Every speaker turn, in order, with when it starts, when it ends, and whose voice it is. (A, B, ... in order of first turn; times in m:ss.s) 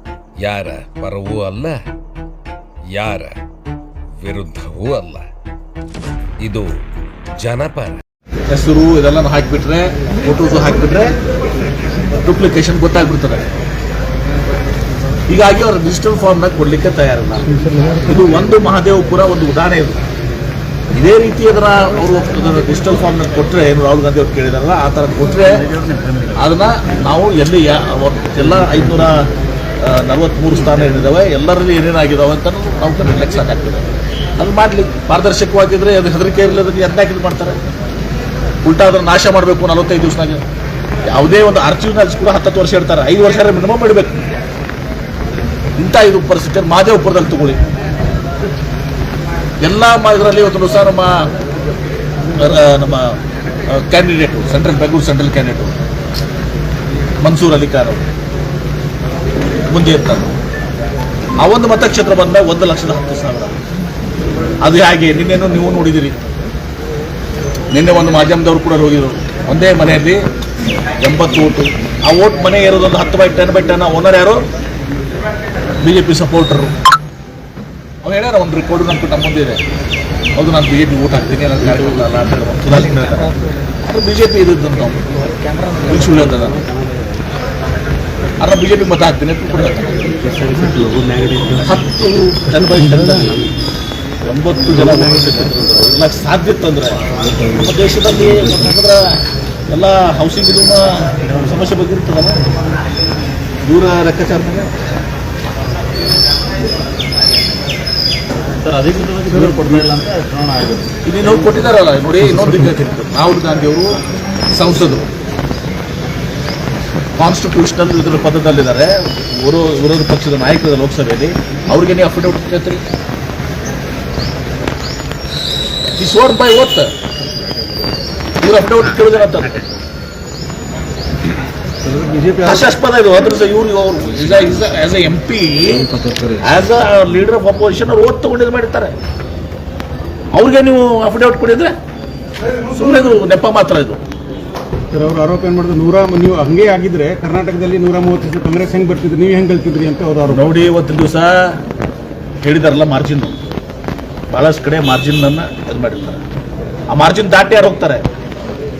0:00.4-0:01.8 A
0:02.9-0:03.4 A
0:04.2-0:05.2 A
0:06.4-0:06.7 A
0:07.4-0:08.0 A
0:08.5-0:11.2 B
0:12.2-0:13.4 B
0:15.3-0:17.5 B
0:18.0-0:20.0 B
0:20.9-0:25.6 B
0:25.6-0:26.3 C
0:26.4-0:29.2 B
0:29.8-0:33.8 B
0:34.4-0:37.6 B
0:38.6-0:40.4 B
0:41.1-0:44.1 B
0:45.8-0:47.6 B
0:49.6-0:51.1 B
0:52.3-0:53.1 B
0:53.7-0:55.7 B
0:57.2-0:58.1 B
0:59.7-1:00.3 B
1:01.4-1:03.5 B
1:04.6-1:06.1 B
1:07.7-1:10.2 B
1:11.0-1:14.4 B
1:15.8-1:16.7 B
1:18.0-1:19.6 B
1:20.4-1:23.3 B
1:23.8-1:25.0 B
1:25.2-1:27.2 C
1:25.8-1:26.6 B
1:28.4-1:30.1 B
1:30.2-1:31.8 C
1:31.6-1:33.3 B
1:32.7-1:33.5 C
1:34.2-1:37.0 B
1:34.7-1:35.5 C
1:37.6-1:39.0 B
1:39.7-1:42.4 B
1:43.6-1:44.7 B
1:48.6-1:50.9 C
1:49.3-1:49.8 D
1:51.0-1:53.9 B
1:54.5-1:55.0 B
1:57.2-2:02.8 B
2:06.0-2:06.9 B
2:08.4-2:09.6 B
2:11.9-2:12.6 D
2:12.4-2:18.9 B
2:15.9-2:16.4 C
2:20.3-2:21.7 B
2:22.7-2:24.0 B
2:24.9-2:30.5 D
2:30.3-2:31.3 B
2:32.4-2:33.4 B
2:34.3-2:36.2 B
2:36.9-2:38.0 B